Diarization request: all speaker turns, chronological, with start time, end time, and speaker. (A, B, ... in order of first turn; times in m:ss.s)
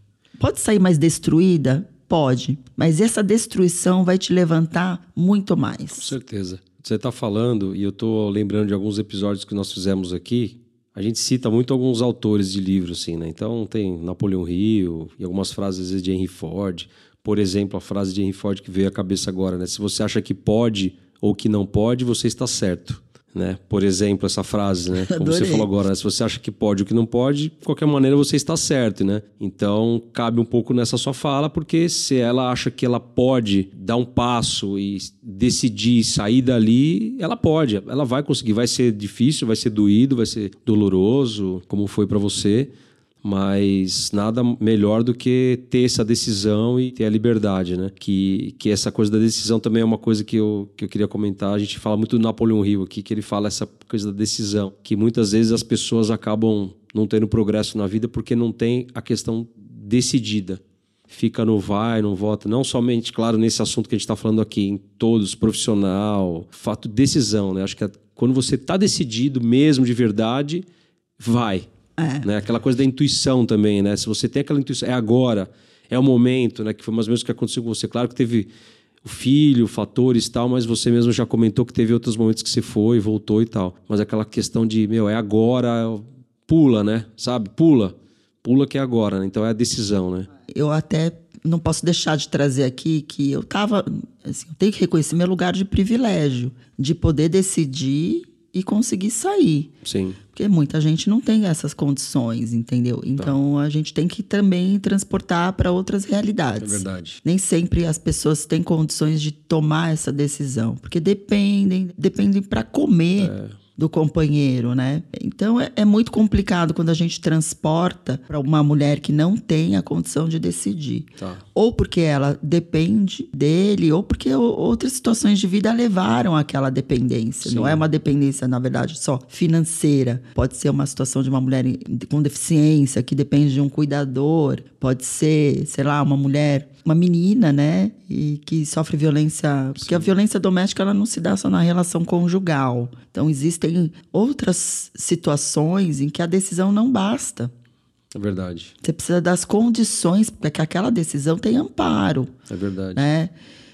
0:00.4-0:06.1 A
0:06.0-0:42.7 B
0:25.0-0:25.7 A
0:43.2-1:10.6 B
1:11.2-1:11.7 B
1:12.0-1:12.3 A
1:12.2-1:18.5 B
1:19.0-1:30.3 B
1:30.5-1:39.7 A
1:39.8-1:40.2 B
1:40.3-2:27.5 A
1:46.6-1:47.2 B
1:53.2-1:53.6 B
2:01.2-2:01.4 B
2:07.4-2:07.8 B
2:19.8-2:20.1 B
2:28.1-2:28.7 B
2:28.8-2:32.3 A
2:32.5-2:33.0 B
2:33.0-2:33.3 A